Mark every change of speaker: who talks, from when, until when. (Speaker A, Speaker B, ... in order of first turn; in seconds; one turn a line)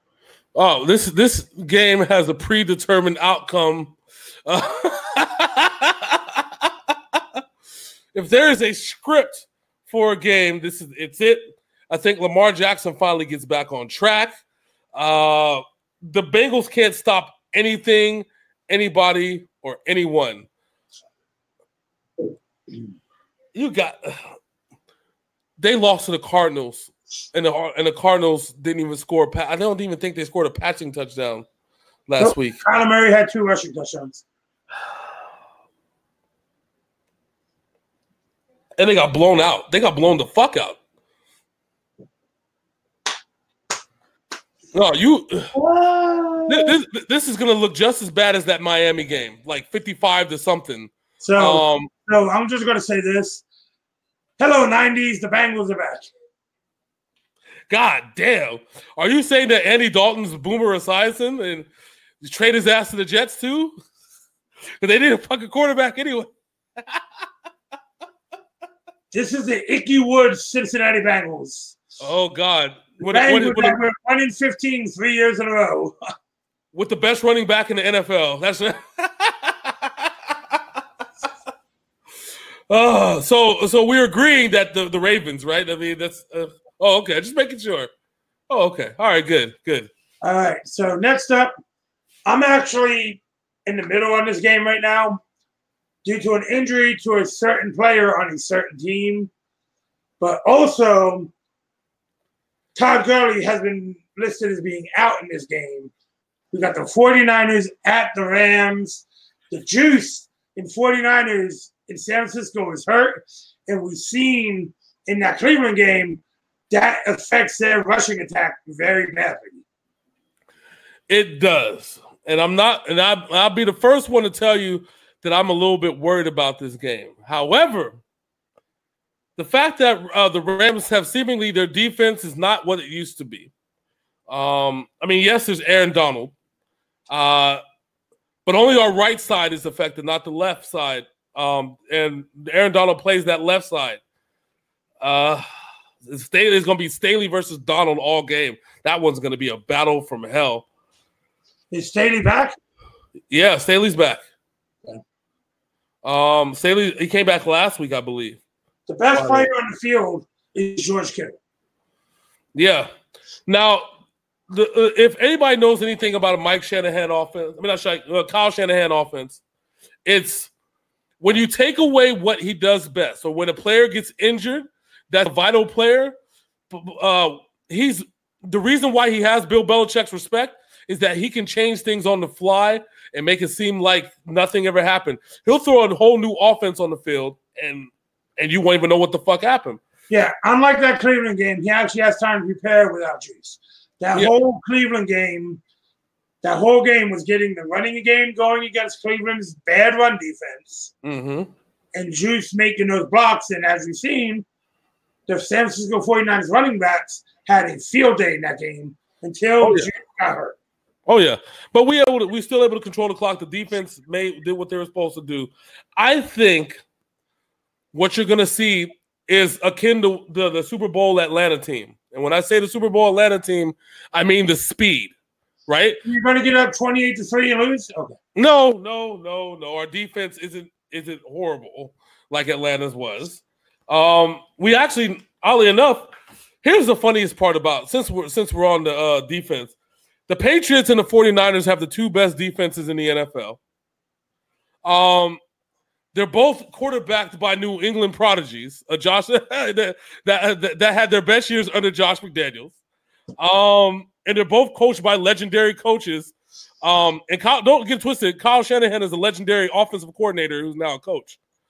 Speaker A: 0.6-7.4
Speaker A: 8.1-14.4
Speaker A: 14.9-20.5
Speaker A: 23.6-24.3
Speaker A: 25.6-31.5
Speaker A: 32.1-32.6
Speaker B: 32.2-34.2
Speaker A: 38.8-40.8
Speaker A: 44.7-45.5
Speaker B: 45.5-46.8
Speaker A: 46.5-51.9
Speaker B: 51.2-53.4
Speaker B: 54.4-56.1
Speaker A: 57.7-61.7
Speaker A: 62.2-63.8
Speaker A: 64.8-67.0
Speaker B: 69.1-71.8
Speaker A: 72.0-73.8
Speaker B: 73.0-76.0
Speaker A: 76.7-80.6
Speaker A: 82.7-87.9
Speaker A: 88.5-89.9
Speaker B: 90.2-91.5
Speaker B: 92.3-95.2
Speaker B: 96.0-99.3
Speaker B: 100.2-101.3
Speaker B: 102.8-105.9
Speaker B: 106.5-119.6
Speaker A: 121.1-128.0
Speaker A: 129.4-133.5
Speaker A: 134.3-136.3
Speaker A: 137.1-137.6
Speaker A: 138.5-144.0
Speaker A: 145.0-145.4
Speaker A: 146.0-150.7
Speaker B: 151.7-152.6
Speaker A: 153.3-154.2
Speaker A: 156.0-158.4
Speaker B: 158.9-161.4
Speaker A: 159.1-159.5
Speaker A: 162.6-162.9
Speaker A: 163.5-163.8
Speaker A: 164.5-169.4
Speaker A: 170.1-170.5
Speaker A: 171.2-176.2
Speaker A: 176.7-189.8
Speaker B: 190.1-195.6
Speaker B: 196.4-200.9
Speaker A: 201.0-201.5
Speaker B: 201.9-204.5
Speaker B: 205.3-210.6
Speaker A: 209.6-209.9
Speaker A: 211.1-216.8
Speaker A: 217.9-225.1
Speaker A: 225.7-226.0
Speaker B: 226.1-228.2
Speaker A: 228.3-236.1
Speaker A: 236.6-239.8
Speaker A: 240.3-243.6
Speaker A: 244.8-245.4
Speaker A: 246.1-252.8
Speaker A: 253.4-261.4